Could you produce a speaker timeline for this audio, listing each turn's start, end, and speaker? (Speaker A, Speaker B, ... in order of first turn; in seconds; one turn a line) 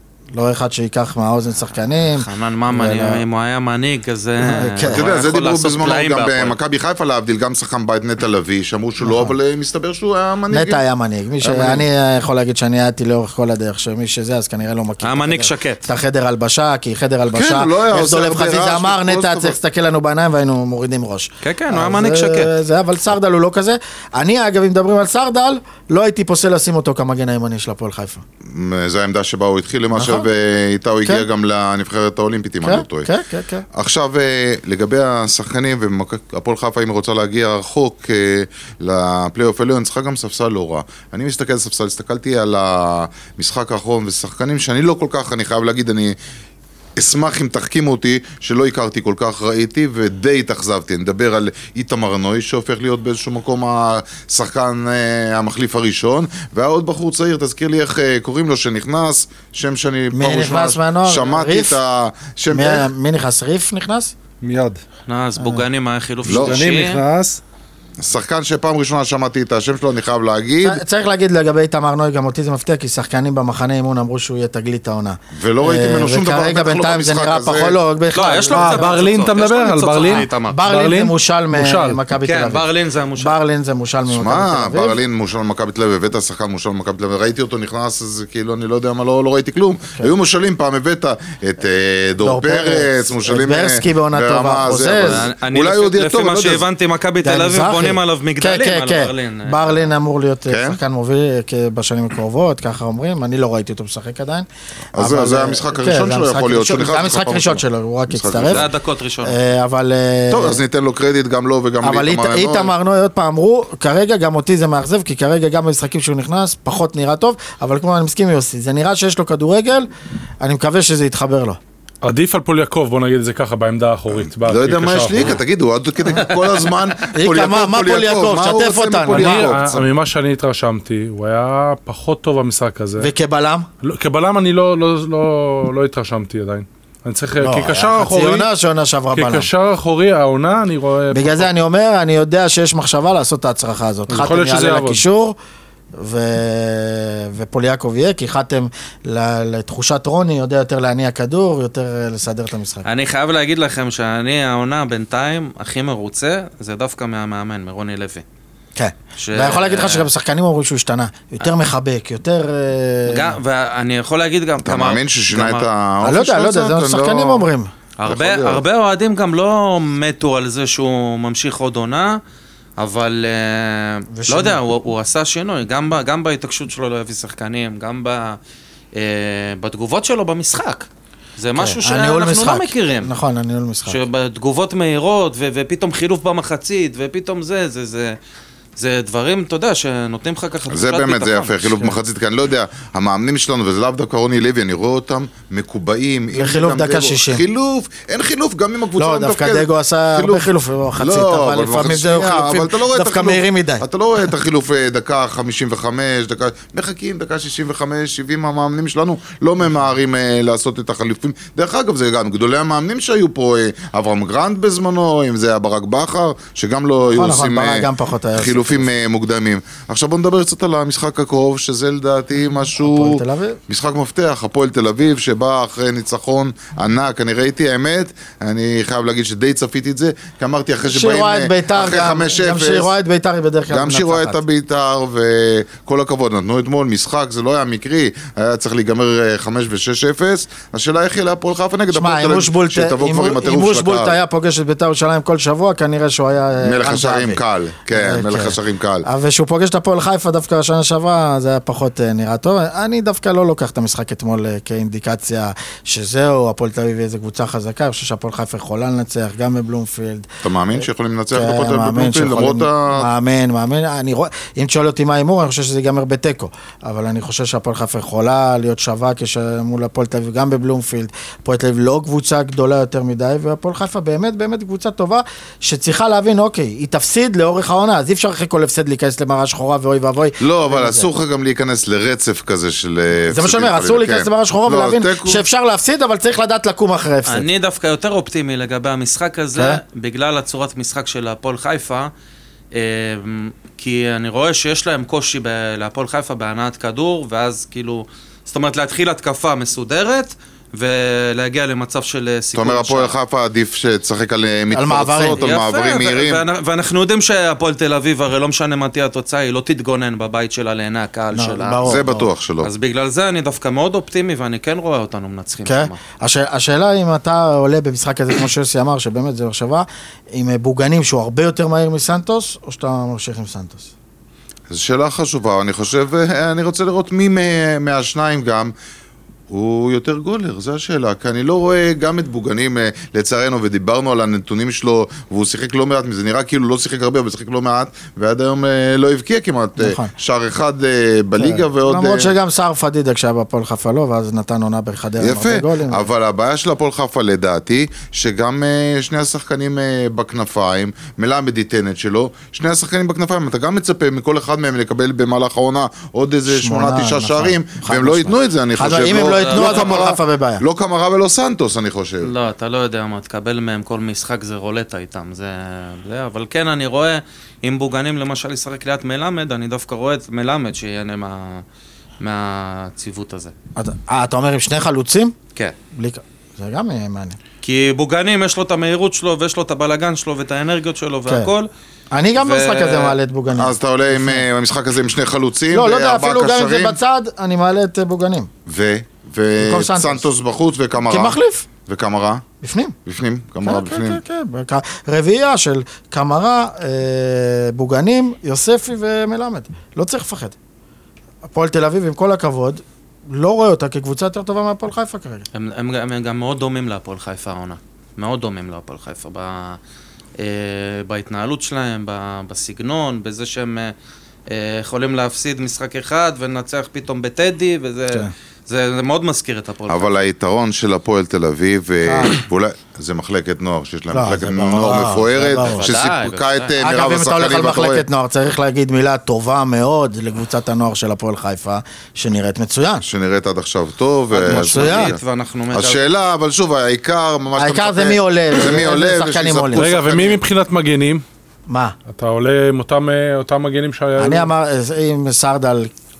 Speaker A: 0.3-3.2
Speaker B: 2.1-6.5
Speaker A: 4.4-5.1
Speaker C: 4.9-10.8
Speaker A: 9.0-9.3
Speaker A: 10.5-28.2
Speaker C: 11.4-11.8
Speaker B: 15.0-15.9
Speaker C: 17.3-19.6
Speaker B: 21.4-22.5
Speaker C: 28.4-33.1
Speaker A: 29.9-30.3
Speaker A: 32.6-33.6
Speaker C: 33.7-46.1
Speaker C: 47.0-62.9
Speaker A: 60.1-61.8
Speaker A: 62.5-64.1
Speaker D: 64.4-64.8
Speaker B: 65.1-67.0
Speaker A: 65.4-65.6
Speaker C: 66.2-66.6
Speaker D: 66.3-67.4
Speaker C: 68.0-70.8
Speaker A: 70.6-79.0
Speaker C: 75.3-77.8
Speaker B: 78.1-80.6
Speaker D: 78.5-82.0
Speaker A: 80.1-85.0
Speaker B: 82.2-83.3
Speaker C: 84.1-96.6
Speaker A: 92.2-95.2
Speaker B: 95.0-99.9
Speaker A: 97.2-108.7
Speaker C: 100.5-100.8
Speaker C: 104.9-108.7
Speaker B: 108.5-109.4
Speaker A: 109.2-110.6
Speaker C: 110.3-112.7
Speaker A: 111.8-119.9
Speaker A: 120.4-121.6
Speaker D: 122.0-125.4
Speaker C: 124.4-129.9
Speaker A: 127.1-129.5
Speaker D: 129.1-133.1
Speaker A: 133.0-133.7
Speaker D: 133.8-138.5
Speaker A: 137.4-139.5
Speaker D: 139.1-141.5
Speaker A: 141.1-145.3
Speaker D: 144.1-145.0
Speaker A: 145.9-152.8
Speaker B: 152.8-158.2
Speaker A: 158.7-163.4
Speaker B: 159.2-160.1
Speaker B: 163.1-165.7
Speaker C: 164.6-167.5
Speaker A: 166.0-167.7
Speaker B: 168.0-172.2
Speaker C: 168.0-168.6
Speaker B: 172.8-178.4
Speaker A: 174.1-174.6
Speaker B: 178.9-183.1
Speaker A: 181.6-184.0
Speaker B: 183.9-188.2
Speaker B: 188.8-191.7
Speaker C: 190.7-232.9
Speaker A: 196.3-197.4
Speaker A: 199.0-203.8
Speaker A: 217.1-218.9
Speaker A: 222.7-223.6
Speaker A: 230.9-234.4
Speaker C: 233.7-244.2
Speaker A: 241.9-247.4
Speaker C: 246.6-249.1
Speaker A: 247.9-260.3
Speaker C: 260.4-263.1
Speaker A: 261.3-281.1
Speaker C: 280.4-285.4
Speaker A: 283.3-287.5
Speaker B: 287.2-292.1
Speaker A: 289.5-289.8
Speaker B: 292.7-303.1
Speaker C: 302.5-306.4
Speaker A: 304.7-305.4
Speaker B: 305.4-311.9
Speaker A: 311.3-312.3
Speaker C: 311.8-312.7
Speaker B: 312.6-316.0
Speaker A: 315.6-323.9
Speaker C: 324.7-328.7
Speaker C: 329.5-342.3
Speaker A: 339.8-340.1
Speaker A: 341.4-346.0
Speaker C: 345.2-362.3
Speaker A: 356.5-360.6
Speaker B: 359.1-360.0
Speaker B: 362.2-371.6
Speaker B: 372.2-373.5
Speaker A: 373.8-375.3
Speaker A: 375.9-377.4
Speaker B: 377.6-381.7
Speaker A: 382.1-384.4
Speaker B: 382.4-383.1
Speaker C: 383.5-387.0
Speaker A: 385.7-388.5
Speaker C: 388.6-392.4
Speaker A: 389.6-390.2
Speaker A: 391.0-391.6
Speaker A: 392.6-392.9
Speaker C: 393.1-394.2
Speaker A: 393.6-400.5
Speaker A: 401.5-405.4
Speaker B: 405.5-409.8
Speaker B: 410.4-413.9
Speaker B: 414.5-420.2
Speaker C: 419.9-428.1
Speaker A: 422.0-422.3
Speaker A: 424.1-425.9
Speaker B: 425.6-426.7
Speaker A: 426.8-433.1
Speaker C: 433.0-435.2
Speaker A: 434.3-435.1
Speaker B: 434.4-436.0
Speaker C: 435.7-440.4
Speaker A: 437.6-439.9
Speaker D: 439.8-441.2
Speaker A: 441.7-441.9
Speaker D: 442.1-444.5
Speaker A: 444.2-445.9